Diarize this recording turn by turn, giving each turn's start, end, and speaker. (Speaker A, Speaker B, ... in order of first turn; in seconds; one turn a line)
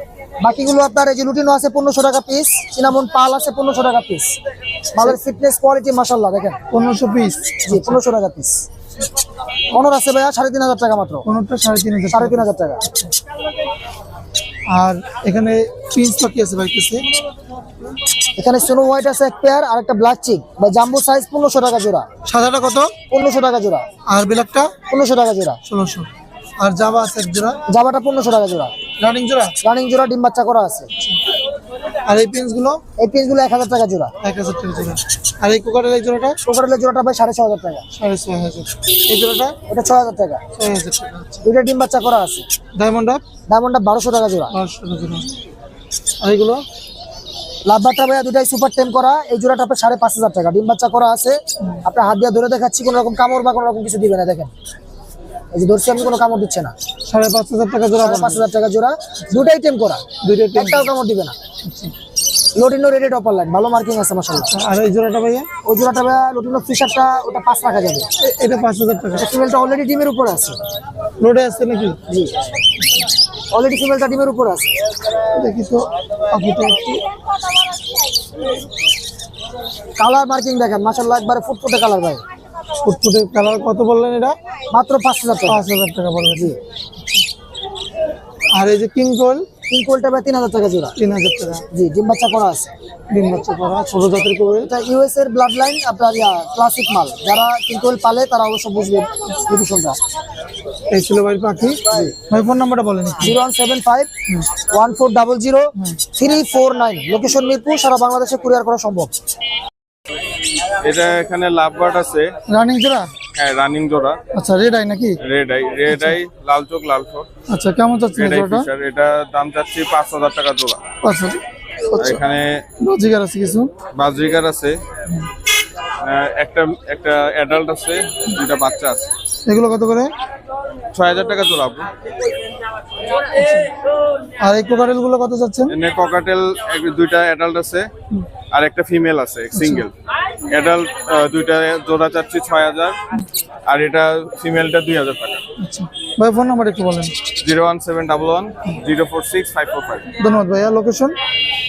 Speaker A: 0.4-4.4
Speaker A: 4.9-6.6
Speaker B: 6.7-8.0
Speaker A: 7.7-8.6
Speaker A: 9.7-11.2
Speaker B: 11.2-13.1
Speaker A: 12.1-12.8
Speaker B: 14.7-17.1
Speaker A: 18.4-22.1
Speaker B: 22.2-22.9
Speaker A: 23.1-23.9
Speaker B: 24.1-24.8
Speaker A: 24.9-25.6
Speaker B: 25.6-26.1
Speaker B: 26.6-27.6
Speaker A: 27.7-28.7
Speaker B: 29.0-29.6
Speaker A: 29.6-30.9
Speaker B: 32.0-32.8
Speaker A: 33.0-34.1
Speaker B: 34.2-36.4
Speaker A: 36.4-37.8
Speaker B: 37.9-39.5
Speaker A: 39.7-40.4
Speaker B: 40.5-41.4
Speaker A: 41.4-42.4
Speaker B: 42.8-43.2
Speaker A: 43.5-44.5
Speaker B: 44.5-45.3
Speaker B: 46.2-46.6
Speaker A: 47.6-54.5
Speaker A: 55.5-56.7
Speaker B: 57.1-58.4
Speaker A: 58.0-60.0
Speaker B: 60.2-60.9
Speaker A: 60.5-61.3
Speaker B: 61.6-61.9
Speaker A: 62.5-64.5
Speaker B: 64.4-65.5
Speaker A: 65.6-68.1
Speaker B: 68.2-69.3
Speaker A: 69.1-70.6
Speaker B: 71.2-72.0
Speaker A: 72.1-72.4
Speaker A: 73.5-74.7
Speaker B: 75.3-77.0
Speaker A: 80.0-82.2
Speaker B: 82.8-84.3
Speaker A: 84.7-85.6
Speaker B: 85.5-86.5
Speaker B: 88.5-89.5
Speaker A: 89.7-91.0
Speaker B: 91.0-91.6
Speaker A: 91.7-92.7
Speaker B: 93.1-94.7
Speaker A: 94.6-100.0
Speaker B: 100.9-103.4
Speaker A: 103.2-109.1
Speaker C: 110.8-112.3
Speaker B: 112.5-113.1
Speaker C: 113.3-114.2
Speaker B: 114.3-115.2
Speaker C: 115.2-117.3
Speaker B: 115.9-116.2
Speaker B: 117.5-118.7
Speaker C: 118.1-120.8
Speaker B: 121.0-122.2
Speaker C: 122.0-122.6
Speaker B: 122.8-123.7
Speaker C: 124.0-124.8
Speaker C: 126.0-129.0
Speaker B: 129.5-130.1
Speaker C: 130.9-131.9
Speaker B: 133.3-133.7
Speaker B: 134.4-135.8
Speaker C: 135.7-137.9
Speaker C: 138.5-139.9
Speaker B: 139.5-139.9
Speaker C: 140.5-142.9
Speaker C: 143.7-145.4
Speaker B: 145.6-147.1
Speaker C: 147.4-150.1
Speaker B: 150.2-151.2